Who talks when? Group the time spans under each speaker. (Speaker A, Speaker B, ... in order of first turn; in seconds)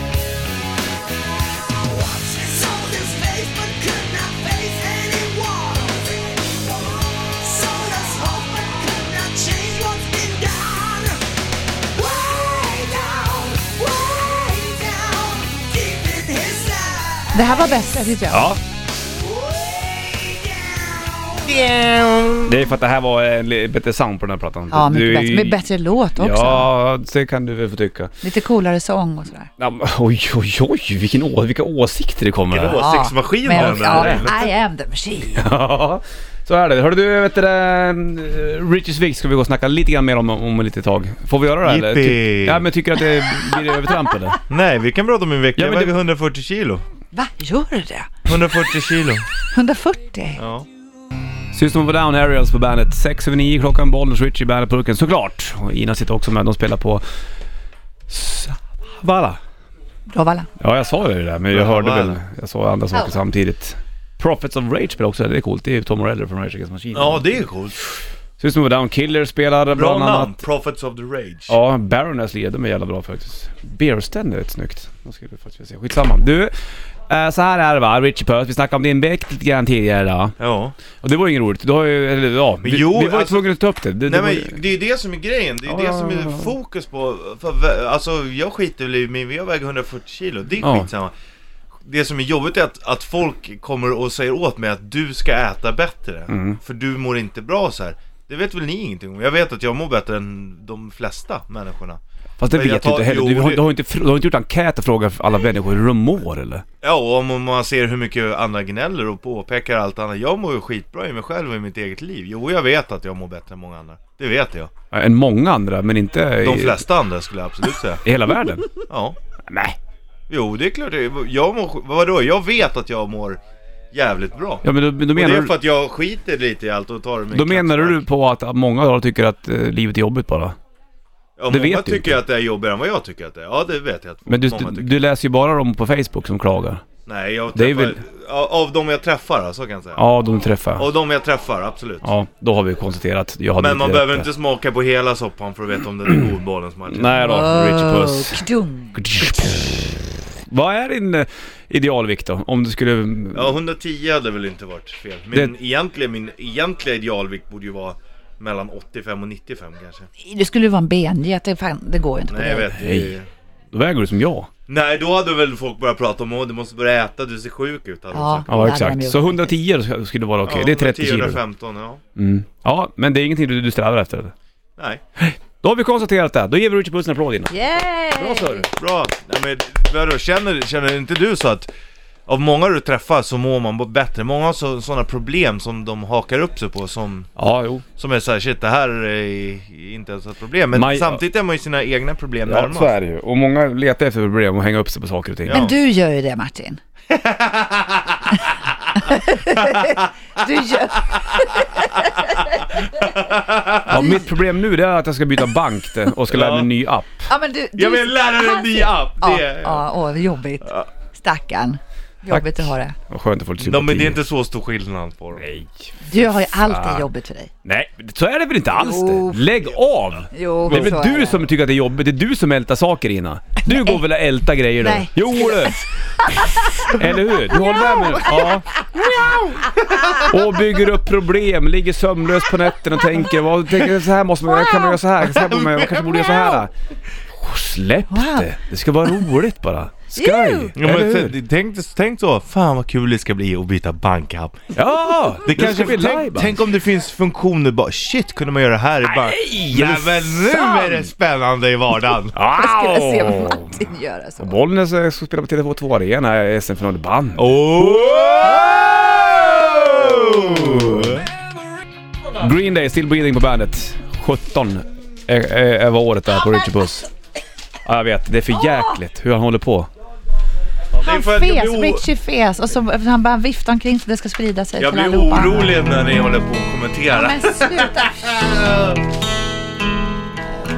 Speaker A: 1.1-11.3, 11.9-17.9, 19.1-21.7
Speaker B: 17.3-18.5, 21.5-22.4, 24.7-26.7, 28.2-29.5, 32.7-35.4, 43.2-44.3, 47.1-48.3, 49.5-50.4, 60.1-60.5, 147.2-149.4, 160.2-162.7, 168.1-169.5, 177.5-178.7, 195.5-196.8, 199.0-202.9, 204.0-204.3, 207.3-212.9, 216.1-217.5, 218.8-219.4, 220.3-221.4, 223.7-224.0, 224.8-230.2, 238.1-238.5, 240.2-240.7, 252.5-254.6, 271.0-275.8, 277.1-278.4
Speaker C: 18.3-18.6, 22.4-25.6, 26.2-28.1, 29.6-32.8, 33.5-34.3, 35.3-44.4, 45.6-45.9, 51.5-57.0, 58.1-59.4, 60.6-67.4, 68.4-70.4, 71.5-76.5, 77.1-80.3, 81.0-84.6, 85.7-86.5, 90.6-90.9, 96.3-96.6, 102.4-106.7, 114.9-116.8, 118.0-118.7, 119.5-119.8, 124.6-125.5, 127.3-130.6, 131.5-132.2, 134.3-136.9, 137.5-138.0, 140.0-140.9, 142.0-144.3, 146.9-153.6, 162.7-163.2, 163.7-164.5, 168.5-171.4, 172.2-174.3, 175.2-178.7, 187.4-187.8, 190.7-191.2, 192.5-195.7, 203.9-207.3, 212.3-214.2, 215.4-217.1, 217.7-225.8, 226.4-228.7, 230.2-236.7, 237.4-241.3, 244.7-246.6, 249.1-251.1, 252.3-253.8, 254.4-258.6, 260.3-261.2, 262.4-267.1, 267.9-269.9
Speaker D: 32.5-34.5, 41.6-42.7, 44.5-46.8, 48.3-49.3, 50.4-50.7, 61.5-62.2, 66.9-67.8, 69.7-71.5, 80.4-80.8, 82.6-83.5, 84.1-91.1, 91.8-102.0, 102.5-103.6, 106.8-114.7, 116.4-118.0, 118.9-119.2, 120.3-123.4, 123.9-128.1, 131.4-134.9, 137.1-140.1, 140.8-142.1, 143.6-147.2, 153.3-160.1, 162.3-163.3, 164.7-168.6, 170.4-172.0, 174.8-175.0, 178.7-181.7, 182.3-187.3, 188.0-192.9, 195.5-195.8, 197.1-198.4, 199.5-200.1, 201.1-202.2, 202.8-204.1, 206.3-206.7, 207.8-209.8, 213.6-215.4, 220.7-220.9, 229.0-230.3, 235.3-236.6, 240.8-244.8, 245.4-252.3, 257.4-261.2, 270.9-272.1, 274.8-279.0